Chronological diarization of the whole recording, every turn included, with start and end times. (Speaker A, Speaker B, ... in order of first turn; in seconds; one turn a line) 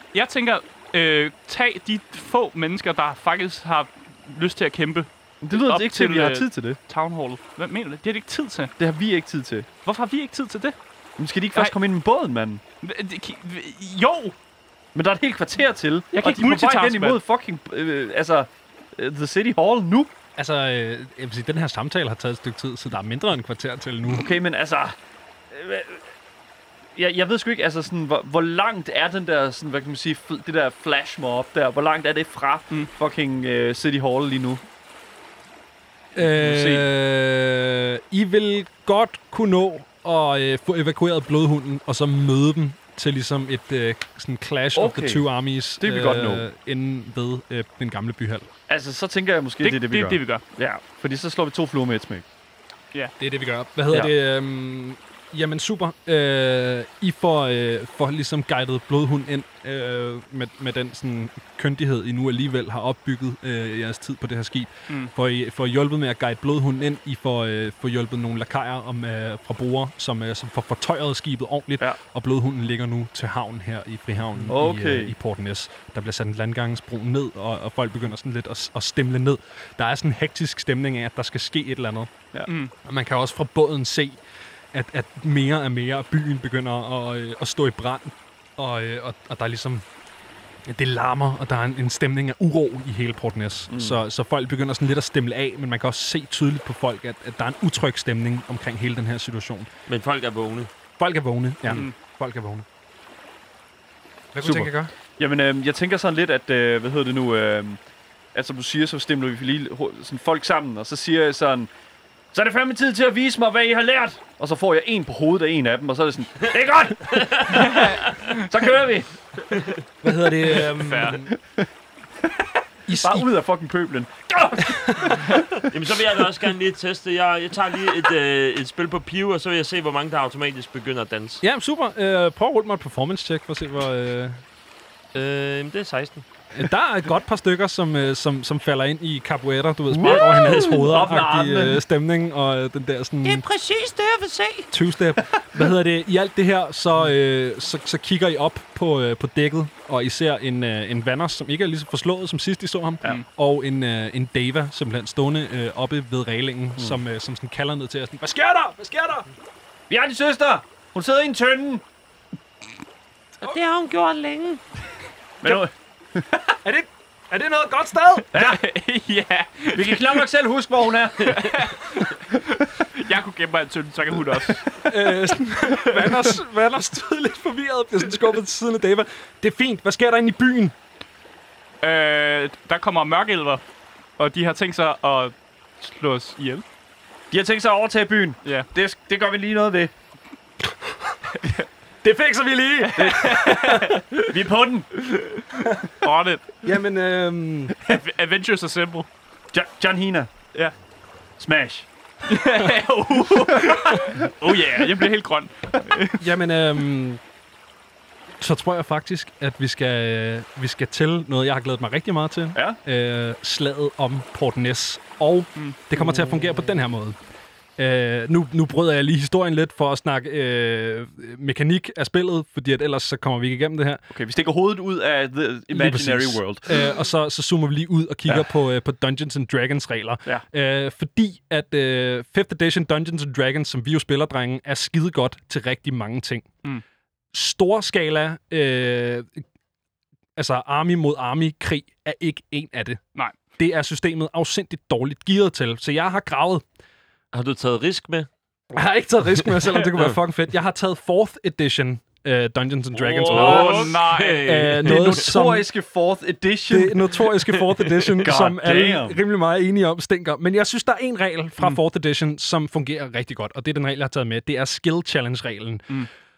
Speaker A: 0.1-8.7
Speaker B: 5.4-6.8
Speaker B: 8.8-9.7
Speaker A: 9.8-10.8
Speaker B: 11.2-12.6
Speaker A: 12.8-14.3
Speaker B: 14.9-20.1
Speaker A: 16.1-17.2
Speaker C: 20.4-24.3
Speaker B: 24.1-24.9
Speaker B: 25.5-26.1
Speaker B: 26.9-34.6
Speaker C: 36.1-48.5
Speaker B: 36.2-36.9
Speaker B: 44.8-45.3
Speaker B: 45.8-46.4
Speaker B: 48.7-52.2
Speaker A: 49.6-50.4
Speaker C: 53.2-82.1
Speaker B: 74.5-75.1
Speaker A: 82.5-82.7
Speaker C: 82.8-84.2
Speaker C: 84.7-89.8
Speaker C: 90.7-99.7
Speaker B: 93.7-94.0
Speaker D: 99.9-100.7
Speaker C: 101.0-102.7
Speaker C: 104.3-104.9
Speaker B: 104.4-107.8
Speaker B: 108.3-111.7
Speaker B: 112.3-119.1
Speaker D: 117.1-117.8
Speaker A: 117.5-118.5
Speaker C: 120.0-121.3
Speaker A: 120.6-121.3
Speaker B: 121.1-121.7
Speaker C: 122.9-123.3
Speaker B: 123.0-125.7
Speaker C: 124.6-125.2
Speaker D: 125.7-131.4
Speaker C: 131.4-134.4
Speaker D: 135.1-136.2
Speaker C: 136.5-143.5
Speaker B: 139.9-141.8
Speaker D: 140.0-141.0
Speaker E: 143.2-144.7
Speaker C: 144.7-159.3
Speaker B: 159.9-161.8
Speaker E: 163.4-164.6
Speaker B: 165.4-166.2
Speaker C: 166.6-168.3
Speaker B: 168.3-168.6
Speaker A: 168.3-170.2
Speaker B: 169.7-171.6
Speaker A: 171.2-174.8
Speaker C: 174.8-180.8
Speaker A: 181.8-183.6
Speaker A: 184.2-186.6
Speaker B: 187.3-189.9
Speaker C: 192.0-193.9
Speaker A: 192.8-194.0
Speaker B: 193.0-193.5
Speaker B: 194.3-194.9
Speaker A: 195.2-196.6
Speaker C: 196.6-197.8
Speaker A: 197.8-199.1
Speaker B: 199.5-200.3
Speaker B: 201.4-201.9
Speaker A: 202.2-206.2
Speaker B: 203.5-203.8
Speaker C: 206.2-207.2
Speaker C: 208.4-217.2
Speaker D: 216.0-216.6
Speaker C: 217.8-224.0
Speaker B: 224.1-226.7
Speaker C: 225.7-236.5
Speaker C: 237.3-239.4
Speaker C: 240.3-243.0
Speaker C: 243.6-246.6
Speaker D: 247.3-248.3
Speaker C: 248.7-255.7
Speaker D: 252.9-255.2
Speaker A: 253.2-255.1
Speaker B: 254.8-257.1
Speaker C: 256.7-265.9
Speaker B: 258.2-259.2